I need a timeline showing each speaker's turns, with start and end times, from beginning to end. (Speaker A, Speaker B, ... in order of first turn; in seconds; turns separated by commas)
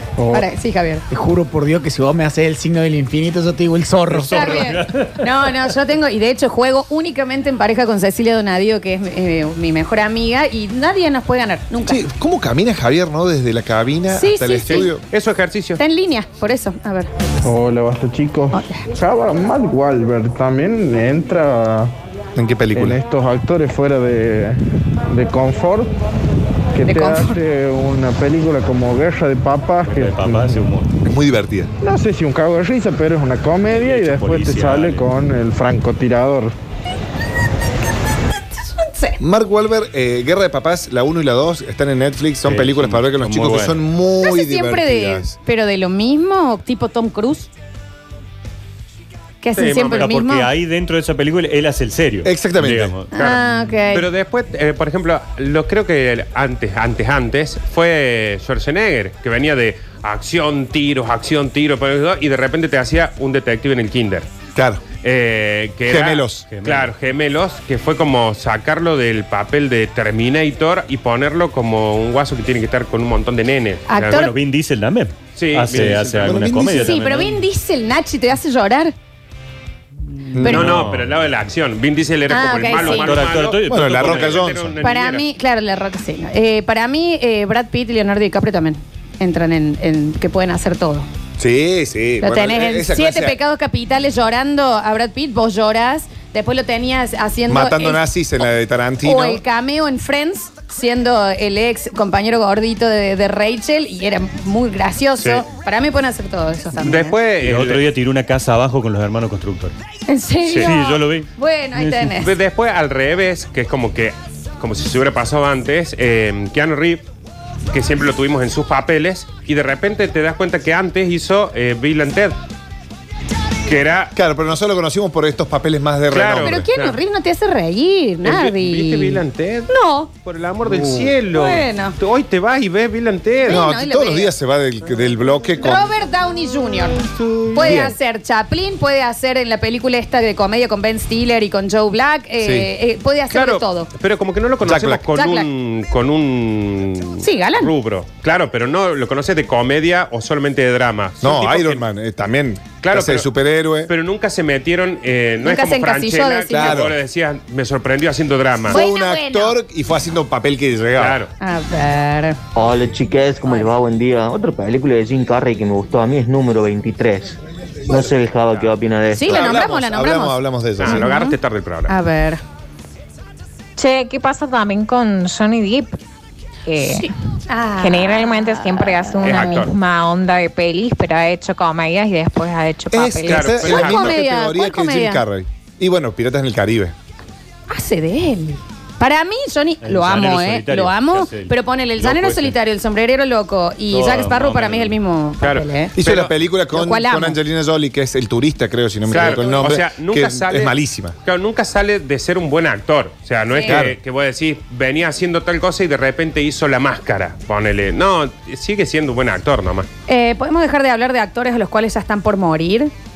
Speaker A: 0.2-0.5, Speaker B: 0.3-1.0, Speaker C: 1.1-4.6, Speaker D: 4.1-5.2, Speaker B: 4.2-12.0, Speaker E: 11.8-15.0, Speaker B: 14.1-14.9, Speaker F: 14.7-15.8, Speaker B: 15.8-17.1, Speaker A: 17.4-21.9, Speaker B: 18.5-18.8, Speaker E: 22.4-23.0, Speaker A: 22.8-24.6, Speaker A: 25.1-25.9, Speaker A: 26.7-30.6, Speaker B: 26.8-27.4, Speaker D: 29.8-30.9, Speaker E: 31.1-31.7, Speaker A: 31.8-36.5, Speaker D: 33.7-35.1, Speaker B: 38.7-39.2, Speaker E: 39.2-45.4, Speaker D: 42.4-43.8, Speaker B: 44.2-47.5, Speaker B: 49.4-50.5, Speaker F: 49.6-50.1, Speaker D: 50.0-53.1, Speaker E: 52.2-53.0, Speaker B: 53.1-54.0, Speaker F: 53.1-53.4, Speaker F: 53.9-64.3, Speaker E: 64.5-64.8, Speaker F: 65.0-74.2, Speaker E: 65.9-66.4, Speaker D: 66.5-66.9, Speaker B: 73.9-74.3, Speaker D: 74.1-77.4, Speaker F: 75.4-76.4, Speaker E: 76.2-76.7, Speaker B: 76.5-78.9, Speaker D: 80.3-81.2, Speaker E: 80.4-80.8, Speaker B: 80.4-80.7, Speaker F: 80.4-85.2, Speaker B: 82.3-83.2, Speaker D: 82.8-84.7, Speaker E: 83.7-84.7, Speaker B: 84.8-91.1, Speaker E: 91.4-93.4, Speaker B: 92.2-98.0, Speaker E: 97.5-99.4, Speaker B: 99.0-107.2, Speaker F: 106.8-107.9, Speaker D: 107.4-109.7, Speaker B: 110.1-112.3, Speaker D: 110.6-112.2, Speaker F: 112.2-117.0, Speaker F: 117.7-122.4, Speaker F: 123.7-124.1, Speaker E: 124.2-126.7, Speaker F: 126.1-127.0, Speaker B: 126.4-130.1, Speaker F: 128.2-133.6, Speaker E: 130.7-131.1, Speaker B: 131.3-132.0, Speaker B: 133.4-134.3, Speaker E: 133.5-135.9, Speaker B: 135.6-143.9, Speaker E: 137.5-137.9, Speaker E: 142.4-142.7, Speaker F: 143.3-151.8, Speaker E: 144.6-145.1, Speaker B: 145.1-145.5, Speaker B: 147.2-147.7, Speaker E: 151.2-153.9, Speaker F: 152.8-153.3, Speaker F: 153.9-158.8, Speaker B: 155.4-156.8, Speaker E: 156.5-157.0, Speaker E: 158.7-161.2, Speaker B: 158.7-159.6, Speaker F: 161.0-161.3, Speaker B: 161.4-162.4, Speaker G: 162.6-167.3, Speaker B: 163.4-163.7, Speaker G: 167.9-169.3, Speaker B: 169.1-171.4, Speaker E: 169.2-171.1, Speaker F: 170.8-171.9, Speaker B: 171.9-172.4, Speaker H: 173.8-176.0, Speaker H: 176.7-177.1, Speaker B: 176.8-179.6, Speaker H: 177.8-183.6, Speaker F: 179.2-179.7, Speaker E: 182.9-186.9, Speaker F: 183.3-184.2, Speaker B: 183.6-185.2, Speaker B: 187.7-195.9, Speaker D: 189.8-192.5, Speaker D: 193.9-194.9, Speaker F: 195.4-196.3, Speaker E: 196.0-201.2, Speaker B: 196.7-197.4, Speaker B: 199.1-199.6, Speaker F: 199.1-209.9, Speaker B: 203.5-203.8, Speaker E: 203.6-204.0, Speaker B: 210.1-212.9